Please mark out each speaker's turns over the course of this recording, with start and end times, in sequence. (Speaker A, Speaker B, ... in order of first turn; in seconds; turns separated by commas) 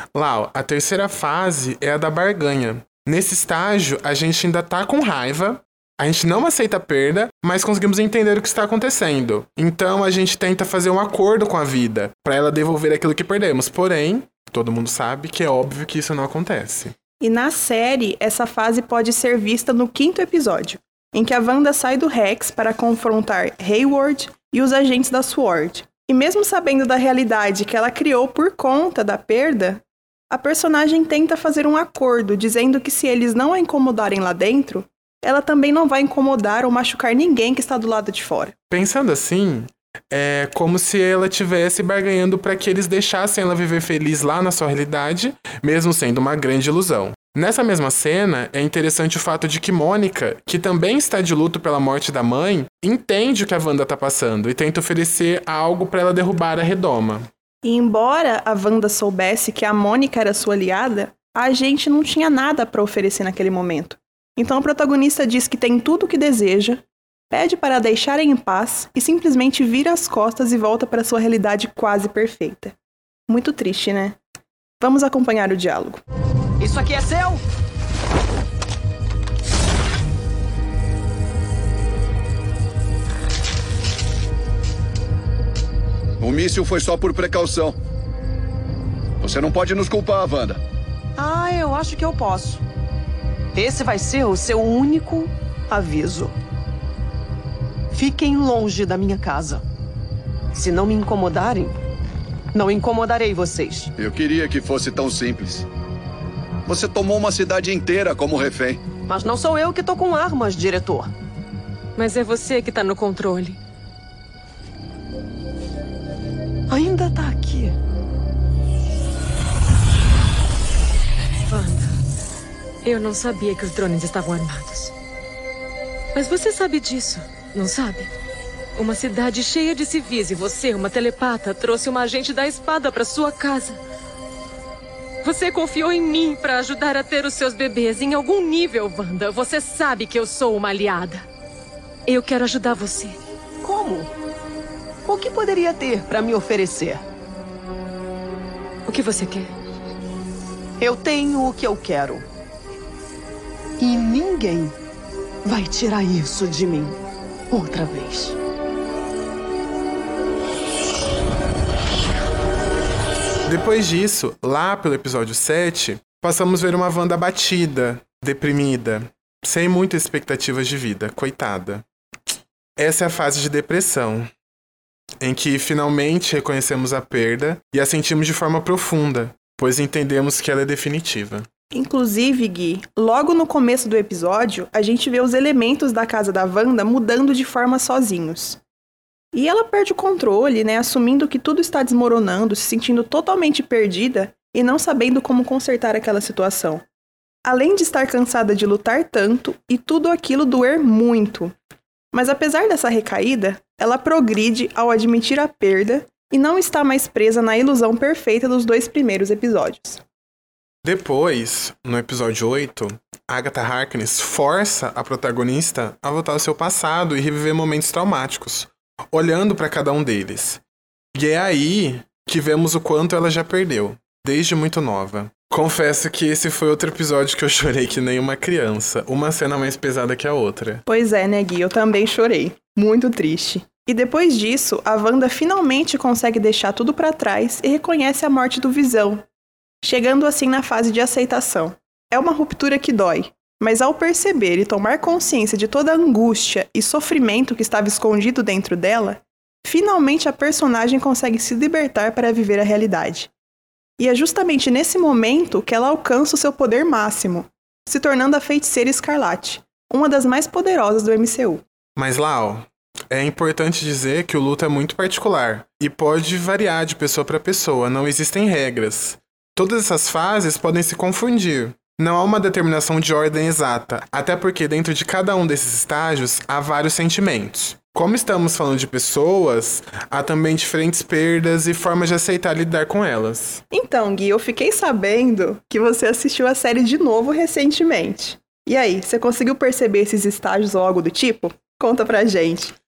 Speaker A: 0.1-16.9, Speaker B: 17.2-38.5, Speaker A: 38.7-57.3, Speaker B: 57.6-72.8, Speaker B: 73.3-74.2, Speaker B: 74.8-76.0, Speaker C: 76.6-77.4, Speaker D: 86.2-87.8, Speaker D: 89.2-90.6, Speaker C: 91.2-92.6, Speaker C: 93.5-96.3, Speaker C: 97.9-99.6, Speaker C: 100.5-101.8, Speaker C: 102.5-103.9, Speaker D: 104.0-105.7, Speaker D: 106.7-108.8, Speaker C: 109.0-111.1, Speaker E: 112.0-113.6, Speaker C: 116.7-117.8, Speaker E: 121.5-122.0, Speaker E: 122.8-124.9, Speaker E: 126.2-128.1, Speaker E: 128.8-133.8, Speaker E: 135.2-141.3, Speaker E: 142.1-143.2, Speaker C: 143.6-144.1, Speaker C: 145.1-147.0, Speaker E: 148.9-149.5, Speaker C: 150.8-152.3, Speaker C: 153.8-154.8, Speaker C: 155.4-158.4, Speaker A: 163.5-171.8, Speaker A: 172.8-174.3, Speaker A: 175.2-181.5, Speaker B: 181.7-188.6, Speaker B: 189.3-196.8, Speaker B: 197.4-201.5, Speaker B: 202.1-210.0, Speaker A: 210.8-220.6, Speaker A: 221.2-230.8, Speaker B: 230.9-239.2, Speaker B: 239.8-253.3, Speaker B: 254.0-261.6, Speaker A: 262.0-283.6, Speaker B: 283.7-292.8